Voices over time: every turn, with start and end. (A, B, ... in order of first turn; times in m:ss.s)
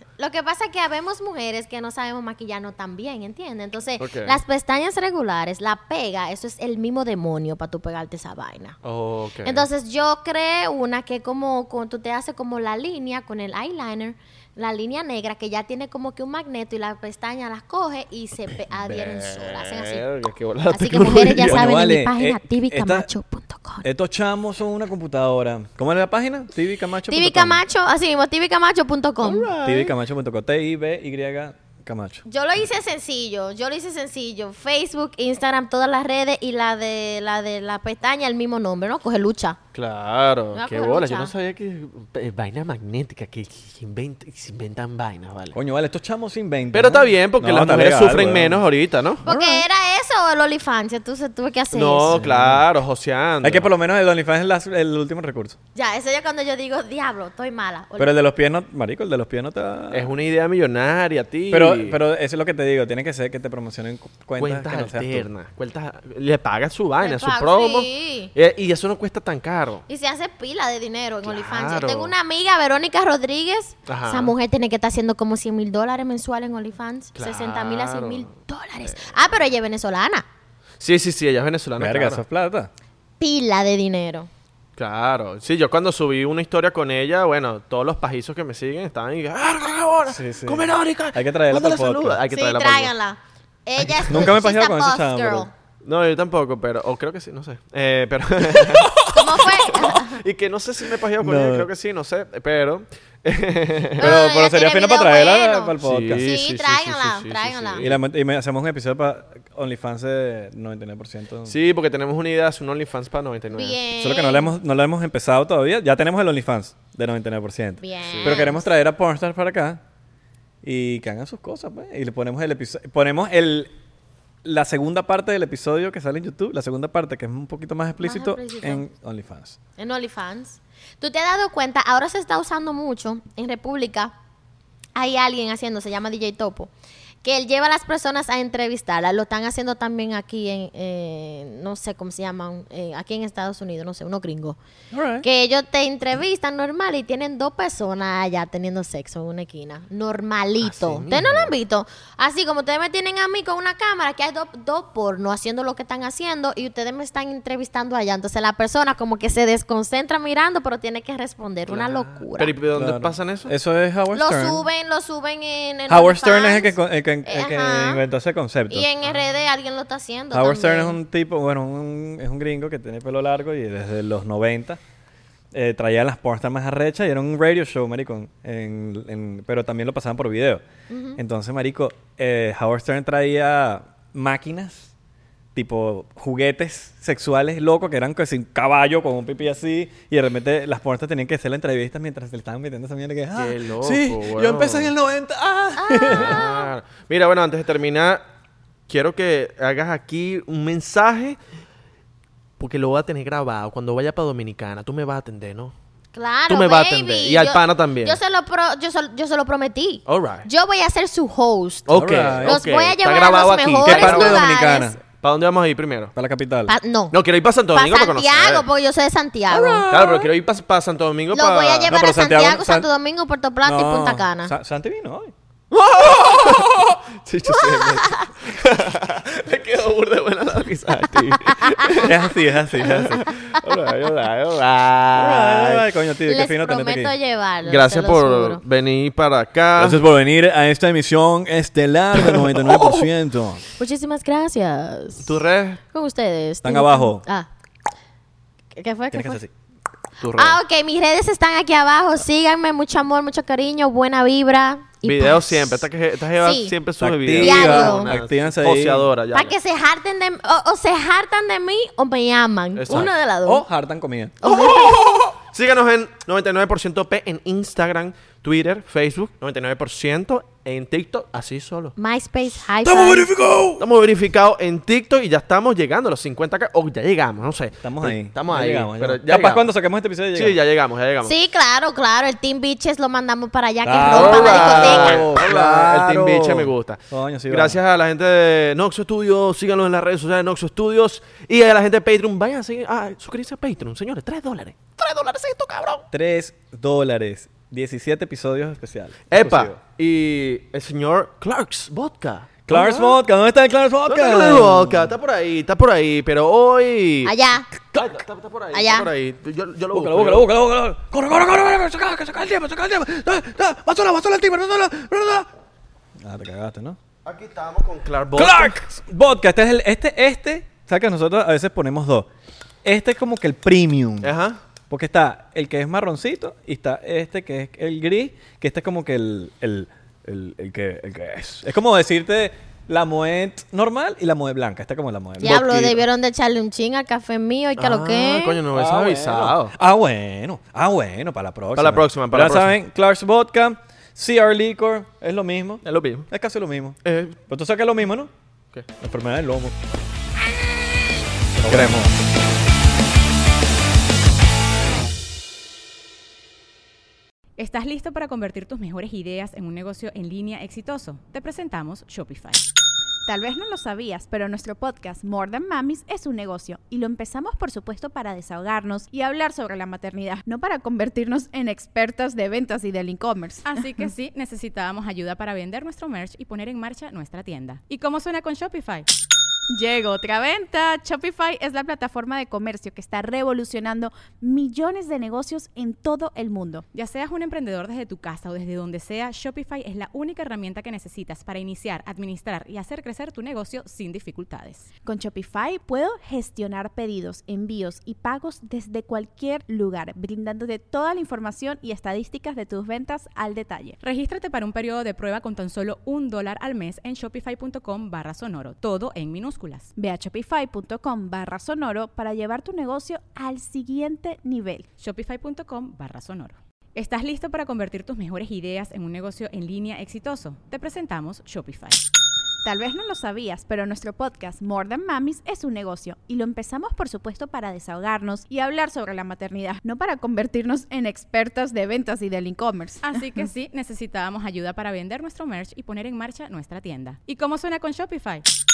0:00.2-0:08.8 A
0:04.0-0:04.4 B
0:08.8-0:09.6 B
0:09.4-0:20.0 A
0:18.8-0:21.7 B
0:20.7-0:23.8 A
0:20.9-0:23.1 C
0:23.8-0:27.6 C
0:27.1-0:29.5 A
0:29.2-0:30.0 B
0:29.6-0:32.2 C
0:32.2-0:39.6 A
0:39.7-0:45.6 B
0:40.5-0:41.3 A
0:45.5-0:48.6 C
0:46.7-0:49.2 B
0:49.2-0:49.6 C
0:49.2-0:52.2 A
0:51.7-0:53.7 B
0:52.1-0:52.6 C
0:53.4-0:55.6 C
0:55.7-0:58.1 A
0:58.0-1:00.1 C
0:59.9-1:02.0 B
1:01.5-1:05.3 C
1:04.4-1:09.8 B
1:07.0-1:08.3 A
1:09.9-1:20.2 A
1:11.2-1:12.1 B
1:13.9-1:14.3 B
1:17.2-1:18.3 B
1:18.9-1:19.1 B
1:20.8-1:22.2 B
1:21.8-1:22.7 C
1:23.2-1:24.3 A
1:24.8-1:32.9 B
1:30.1-1:32.2 C
1:32.3-1:35.5 A
1:34.1-1:35.5 C
1:35.8-1:38.9 B
1:38.5-1:39.5 C
1:39.1-1:40.2 A
1:39.7-1:44.1 B
1:41.2-1:41.7 C
1:44.0-1:46.3 C
1:44.0-1:47.8 A
1:45.8-1:48.0 B
1:47.8-1:51.5 C
1:51.5-1:53.8 B
1:53.5-1:54.5 A
1:54.0-1:59.8 C
1:57.8-1:58.7 A
1:58.1-1:58.4 B
2:00.6-2:03.7 C
2:04.4-2:09.6 C
2:08.0-2:08.8 A
2:09.8-2:14.1 A
2:15.0-2:16.7 A
2:17.2-2:24.6 A
2:24.9-2:25.2 C
2:25.2-2:42.5 A
2:30.6-2:31.5 B
2:41.7-2:43.5 B
2:42.7-2:44.6 C
2:44.1-2:48.0 A
2:45.9-2:48.9 C
2:48.7-2:51.0 A
2:50.3-2:54.8 C
2:55.5-3:00.6 C
3:00.9-3:01.2 A
3:01.2-3:04.9 C
3:05.5-3:16.4 C
3:13.3-3:14.9 B
3:15.8-3:16.7 A
3:16.1-3:18.2 B
3:18.9-3:21.4 B
3:22.6-3:25.7 B
3:26.1-3:35.0 A
3:26.5-3:28.2 B
3:30.1-3:30.5 B
3:31.9-3:34.4 B
3:31.9-3:32.6 C
3:33.8-3:35.0 C
3:35.2-3:36.1 B
3:36.1-3:36.7 C
3:36.7-3:37.2 A
3:37.1-3:38.6 B
3:37.7-3:39.8 A
3:39.5-3:40.3 C
3:39.9-3:41.9 B
3:41.3-3:44.5 A
3:41.9-3:42.9 C
3:43.6-3:45.3 C
3:45.7-3:52.2 B
3:47.5-3:48.3 A
3:51.6-3:52.1 A
3:52.0-3:53.2 C
3:52.8-3:55.8 B
3:55.1-3:57.1 C
3:56.2-3:58.6 A
3:57.6-4:00.0 B
3:59.8-4:03.6 C
4:03.7-4:05.4 A
4:05.2-4:05.8 B
4:05.9-4:07.5 A
4:06.6-4:07.2 C
4:08.7-4:09.4 A
4:09.1-4:09.5 C
4:10.2-4:10.6 B
4:10.4-4:15.8 A
4:15.0-4:19.5 B
4:16.4-4:16.7 A
4:17.0-4:19.1 C
4:17.4-4:18.1 A
4:19.3-4:23.6 A
4:22.8-4:23.1 B
4:22.9-4:25.4 C
4:24.4-4:25.0 A
4:25.5-4:31.9 B
4:32.0-4:33.3 A
4:32.8-4:33.8 C
4:33.8-4:39.7 B
4:37.8-4:40.6 C
4:40.3-4:41.3 B
4:41.2-4:45.2 A
4:43.8-4:47.8 C
4:44.1-4:56.0 B
4:56.1-4:59.8 C
4:59.3-5:03.2 B
5:02.7-5:05.1 C
5:04.1-5:07.3 B
5:07.2-5:07.7 A
5:07.9-5:10.4 B
5:08.7-5:09.1 A
5:09.9-5:15.5 C
5:16.2-5:17.0 C
5:17.2-5:18.8 B
5:18.3-5:22.3 C
5:22.8-5:24.3 C
5:24.2-5:24.6 B
5:24.9-5:36.0 C
5:35.4-5:38.6 A
5:37.8-5:39.7 B
5:38.7-5:47.0 C
5:41.8-5:42.7 B
5:45.8-5:46.3 B
5:47.0-5:47.4 B
5:47.5-5:48.3 C
5:49.0-5:49.7 C
5:51.6-5:52.2 C
5:51.6-5:52.0 B
5:57.6-6:02.6 D
6:03.3-6:13.8 E
6:13.6-6:19.1 D
6:19.7-6:26.8 E
6:26.9-6:34.9 D
6:35.0-6:44.0 E
6:44.0-6:49.9 D
6:50.0-6:54.9 E
6:55.0-7:02.0 D
7:02.6-7:13.2 E
7:13.0-7:18.4 D